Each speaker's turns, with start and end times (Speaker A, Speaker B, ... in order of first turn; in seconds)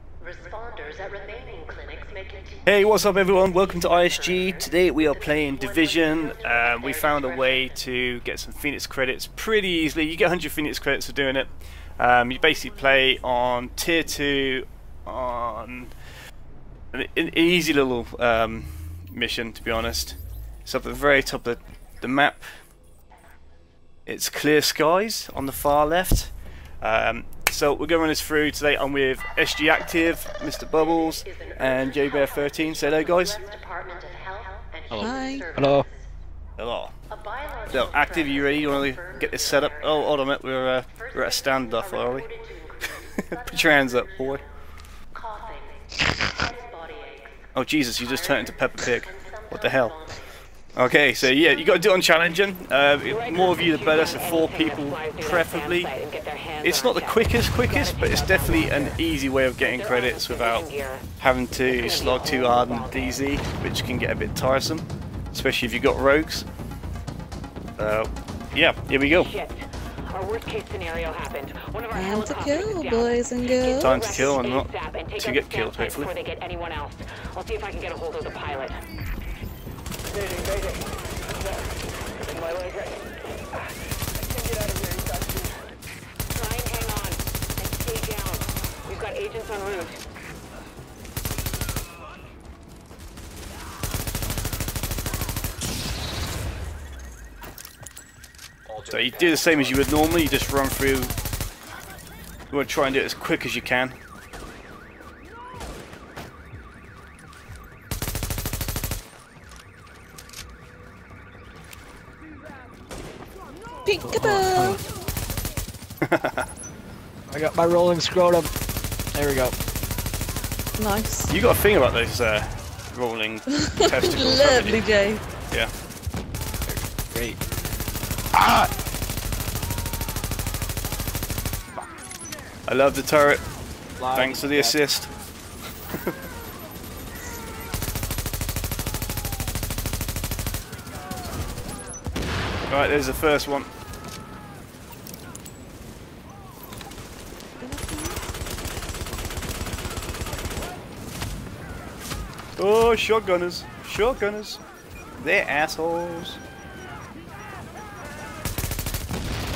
Speaker A: 0.7-2.4, 32.0-32.4, 33.3-35.9, 37.6-39.2, 42.5-42.9, 45.3-45.8, 46.4-47.3
Speaker B: 2.7-15.9, 16.9-22.6, 24.1-33.4, 36.6-36.9, 37.7-42.3, 43.0-44.4, 47.5-50.1, 50.8-55.9, 56.6-66.5, 67.8-69.3, 73.8-76.1, 98.9-101.1, 102.5-104.0, 116.0-116.5, 121.3-124.8, 132.7-133.4, 134.1-135.1, 142.7-143.7, 152.6-154.6, 155.2-156.4
Speaker C: 35.0-35.5, 71.9-74.4, 113.8-114.8, 120.8-121.3, 123.6-125.2, 147.6-148.2
Speaker D: 35.5-35.9, 114.0-114.8, 117.3-118.5, 119.1-119.6, 126.7-127.4, 128.3-128.7, 134.0-134.8
Speaker E: 53.1-59.0, 59.6-61.0, 61.7-63.2, 69.1-78.8, 86.3-90.0